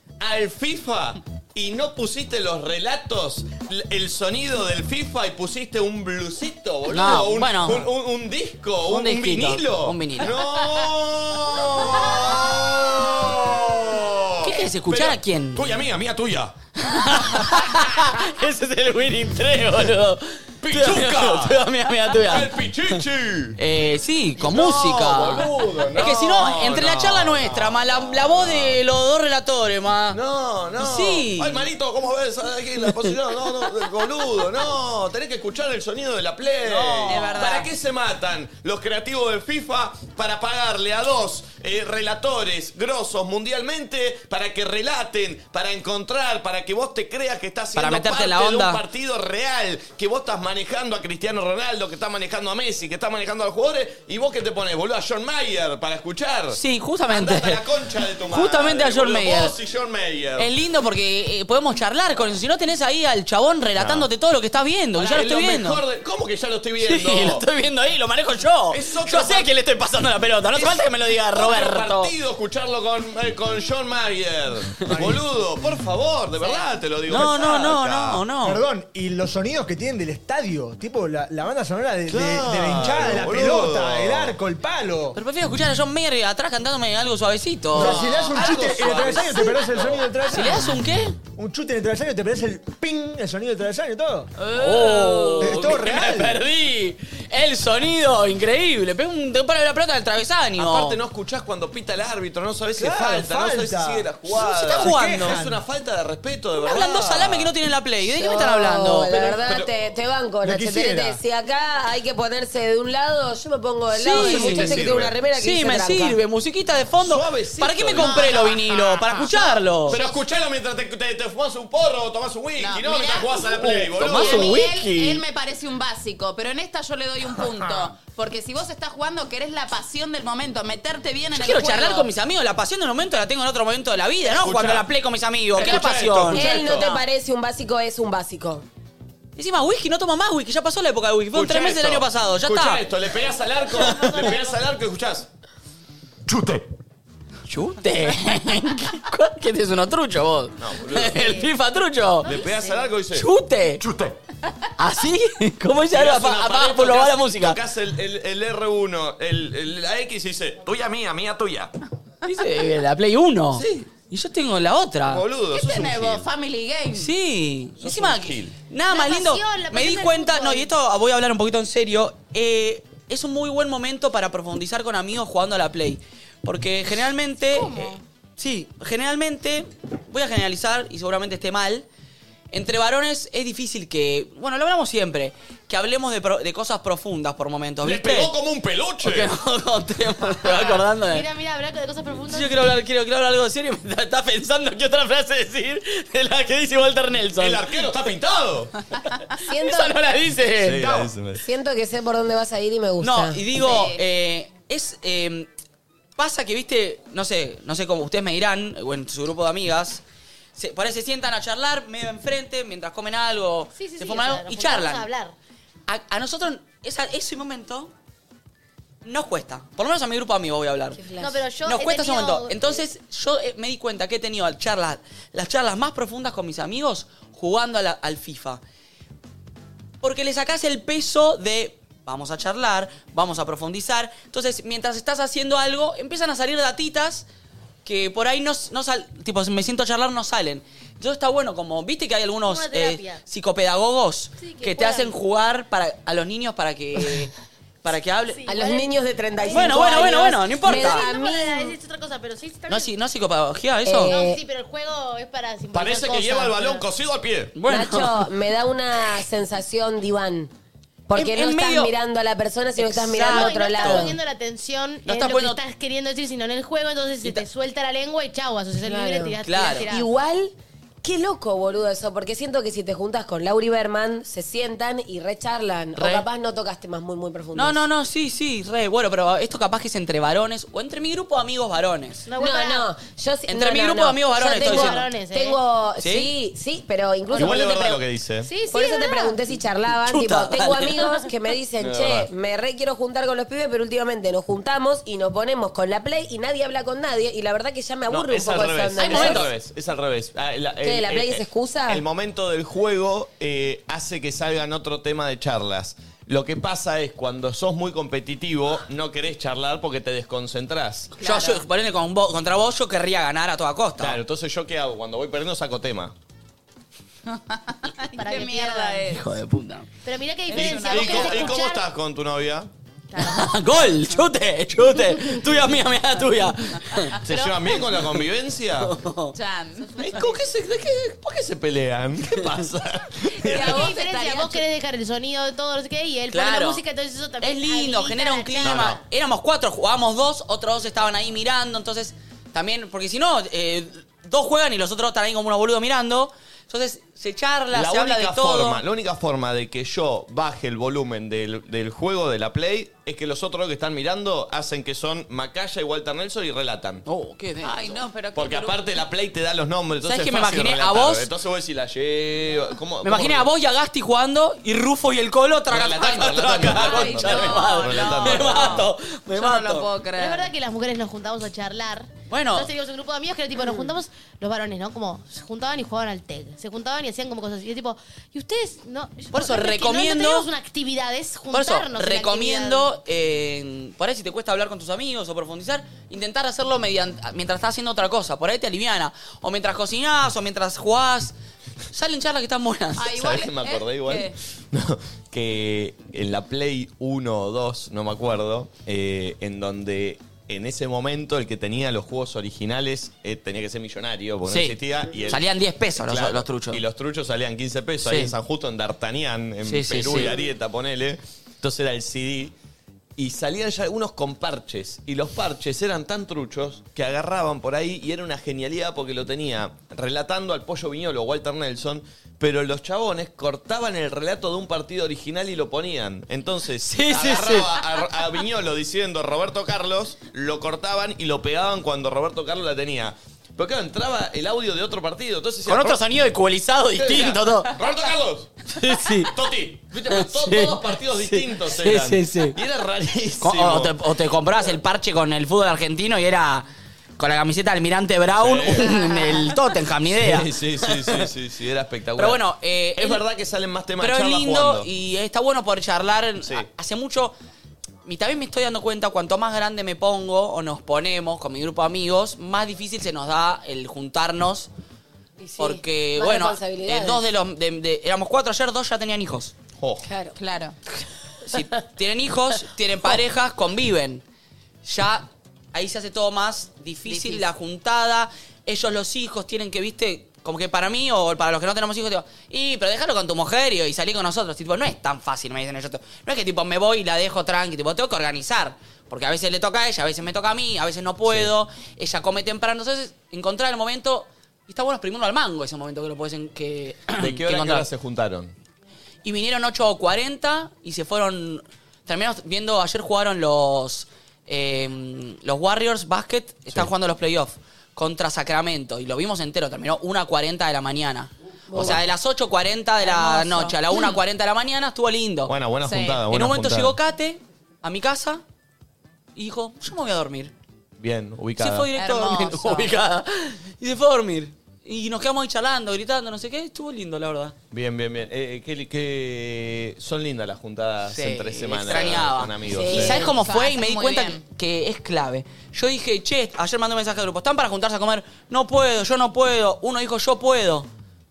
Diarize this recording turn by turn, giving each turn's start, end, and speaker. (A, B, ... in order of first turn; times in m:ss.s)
0:00.2-0:16.5 A
0:06.9-0:07.9 B
0:08.9-0:10.4 B
0:14.4-0:15.8 B
0:16.8-0:22.5 B
0:17.4-0:17.8 A
0:20.6-0:21.6 A
0:22.1-0:23.6 A
0:23.6-0:30.2 B
0:24.4-0:28.8 A
0:30.1-1:00.5 A
0:30.8-0:31.7 B
0:36.6-0:37.7 B
0:37.0-0:37.4 C
0:47.8-0:48.8 B
0:56.5-0:57.6 B
0:58.3-0:59.5 B
1:00.4-1:05.8 B
1:03.8-1:04.1 A
1:05.0-1:07.4 A
1:06.8-1:12.1 B
1:08.7-1:09.5 A
1:10.5-1:18.2 A
1:14.9-1:15.2 D
1:16.5-1:18.6 B
1:18.4-1:25.2 D
1:22.1-1:24.4 A
1:25.1-1:28.0 B
1:27.7-1:30.1 A
1:27.7-1:36.4 D
1:30.3-1:31.2 B
1:34.4-1:41.0 B
1:40.6-1:47.5 A
1:42.8-1:45.6 D
1:44.4-1:45.4 B
1:46.6-1:49.4 B
1:48.0-1:56.2 E
1:49.3-1:49.7 A
1:50.4-1:51.2 D
1:53.9-2:00.0 B
1:54.1-1:55.1 A
1:57.0-1:58.4 A
1:58.0-2:00.2 C
1:59.9-2:04.6 A
2:02.6-2:12.1 C
2:03.5-2:05.2 B
2:11.3-2:16.6 B
2:14.2-2:14.9 A
2:15.5-2:17.0 A
2:16.3-2:18.6 E
2:19.4-2:22.8 B
2:21.3-2:25.3 A
2:26.2-2:26.7 A
2:27.5-2:32.4 B
2:30.6-2:31.4 A
2:32.2-2:32.9 F
2:32.2-2:33.3 A
2:33.1-2:33.8 B
2:33.8-2:34.2 A
2:34.8-2:37.6 B
2:35.9-2:41.7 A
2:42.2-2:45.2 B
2:43.5-2:43.9 A
2:45.1-2:46.3 A
2:45.5-2:47.1 C
2:46.9-3:01.8 B
2:47.8-2:48.5 A
2:48.9-2:50.7 F
3:02.5-3:08.3 B
3:07.8-3:09.3 A
3:09.0-3:11.2 B
3:10.4-3:12.7 F
3:12.3-3:17.7 B
3:17.4-3:18.7 A
3:19.4-3:21.0 B
3:19.4-3:20.0 E
3:20.6-3:21.4 A
3:21.4-3:23.7 E
3:23.0-3:25.5 B
3:23.6-3:24.0 C
3:26.2-3:30.0 B
3:30.6-3:35.1 B
3:33.8-3:35.3 F
3:35.9-3:37.9 B
3:39.0-3:41.0 B
3:40.9-3:41.4 E
3:41.2-3:42.8 F
3:41.6-3:48.6 B
3:50.0-3:57.2 B
3:57.8-4:07.3 B
4:02.4-4:03.2 F
4:04.4-4:05.1 F
4:07.8-4:08.4 B
4:08.3-4:08.9 F
4:08.5-4:11.8 E
4:09.5-4:12.9 F
4:09.5-4:11.1 B
4:12.7-4:14.2 B
4:13.8-4:14.4 E
4:14.0-4:16.8 F
4:15.7-4:17.6 A
4:17.5-4:18.3 B
4:17.7-4:20.5 E
4:21.1-4:24.2 E
4:21.1-4:21.9 B
4:22.8-4:24.1 B
4:23.2-4:30.1 F
4:25.0-4:25.6 B
4:28.8-4:37.8 E
4:29.4-4:29.9 B
4:36.0-4:36.2 B
4:37.5-4:42.3 B
4:42.2-4:42.9 F
4:42.4-4:48.0 E
4:43.5-4:45.0 B
4:44.5-4:45.6 F
4:46.0-4:46.3 B
4:47.3-4:48.5 A
4:48.4-4:49.4 F
4:48.6-4:59.5 E
4:50.0-4:51.2 B
4:51.8-4:52.3 A
4:58.1-5:11.2 A
4:59.0-4:59.5 B
5:00.8-5:02.0 E
5:11.2-5:14.2 B
5:14.0-5:16.1 A
5:17.6-5:19.2 C
5:18.1-5:19.1 F
5:19.0-5:19.9 B
5:20.0-5:21.8 F
5:20.5-5:21.5 C
5:20.5-5:22.7 A
5:23.1-5:23.5 F
5:23.2-5:27.2 B
5:27.2-5:28.9 A
5:27.4-5:27.7 F
5:28.8-5:29.3 B
5:29.3-5:30.3 C
5:30.0-5:33.9 A
5:33.4-5:34.6 C
5:33.5-5:39.0 F
5:36.3-5:36.8 B
5:37.4-5:48.8 B
5:38.6-5:39.0 A
5:47.7-5:57.0 A
5:57.0-5:57.9 B
5:57.6-5:58.8 C
5:58.3-6:03.5 A
6:00.0-6:01.3 B
6:03.0-6:09.9 B
6:05.7-6:08.9 A
6:06.7-6:10.5 C
6:10.1-6:22.9 F
6:12.3-6:12.7 B
6:19.3-6:20.5 B
6:21.5-6:31.3 B
6:31.9-6:33.1 B
6:33.0-6:34.3 C
6:33.1-6:45.4 A
6:44.5-6:46.8 B
6:46.0-6:52.5 A
6:48.0-6:48.3 B
6:49.6-6:50.4 B
6:53.2-7:16.0 A
7:06.8-7:07.8 B
7:15.6-7:17.7 B
7:17.0-7:18.5 A
7:18.7-7:19.3 B
7:19.2-7:23.9 A
7:20.1-7:22.6 B
7:23.4-7:26.7 B
7:27.2-7:31.2 B
7:28.3-7:29.0 A
7:30.1-7:32.4 A
7:32.2-7:33.2 B
7:33.0-7:34.9 A
7:34.0-7:37.3 B
7:38.0-7:44.7 B
7:45.4-7:47.2 E
7:45.6-7:49.5 B
7:49.8-7:50.1 A
7:50.0-7:50.3 E
7:50.4-7:50.7 C
7:51.4-7:54.2 B
7:54.8-8:17.9 B
7:57.0-7:57.4 C
8:11.2-8:11.5 A
8:17.2-8:18.5 A
8:19.2-8:38.4 B
8:31.7-8:32.0 E
8:33.0-8:33.8 C
8:35.4-8:37.0 A
8:39.3-8:40.5 B
8:41.0-8:41.9 A
8:41.6-8:47.5 B
8:42.0-8:42.9 C
8:47.7-8:53.2 A
8:51.1-9:00.9 B
8:52.6-8:53.3 E
8:52.9-8:54.4 C